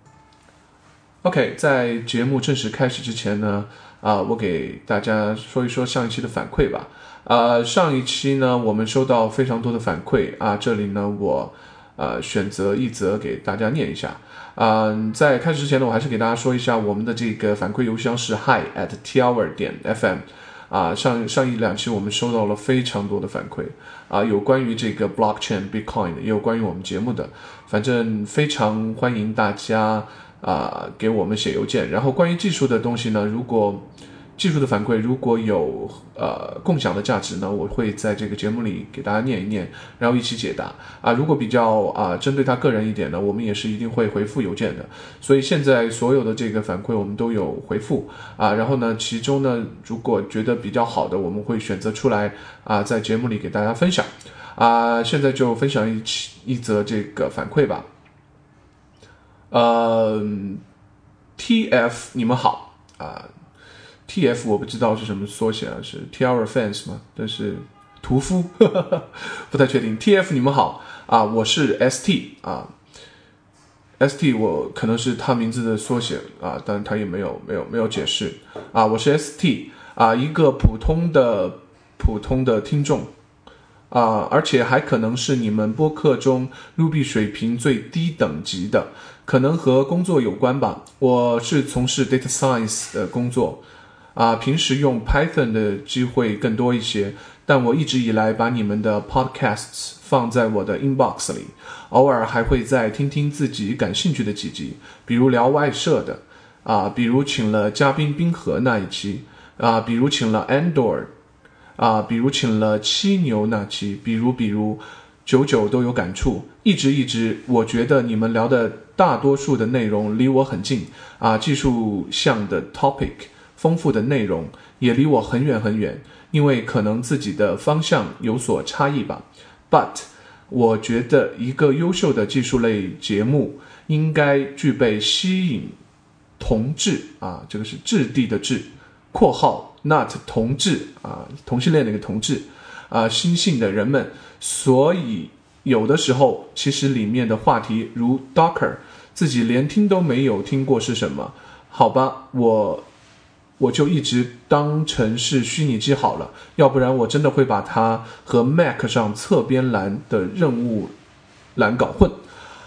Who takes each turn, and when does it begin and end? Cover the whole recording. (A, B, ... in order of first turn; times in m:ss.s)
0:01.2-0:57.9 A
0:59.5-1:00.6 A
1:01.4-1:03.3 A
1:04.1-1:12.7 A
1:14.0-1:23.1 A
1:23.9-1:33.6 A
1:34.1-1:51.1 A
1:51.8-2:15.8 A
2:16.4-2:32.9 A
2:33.6-2:40.9 A
2:41.5-2:42.2 A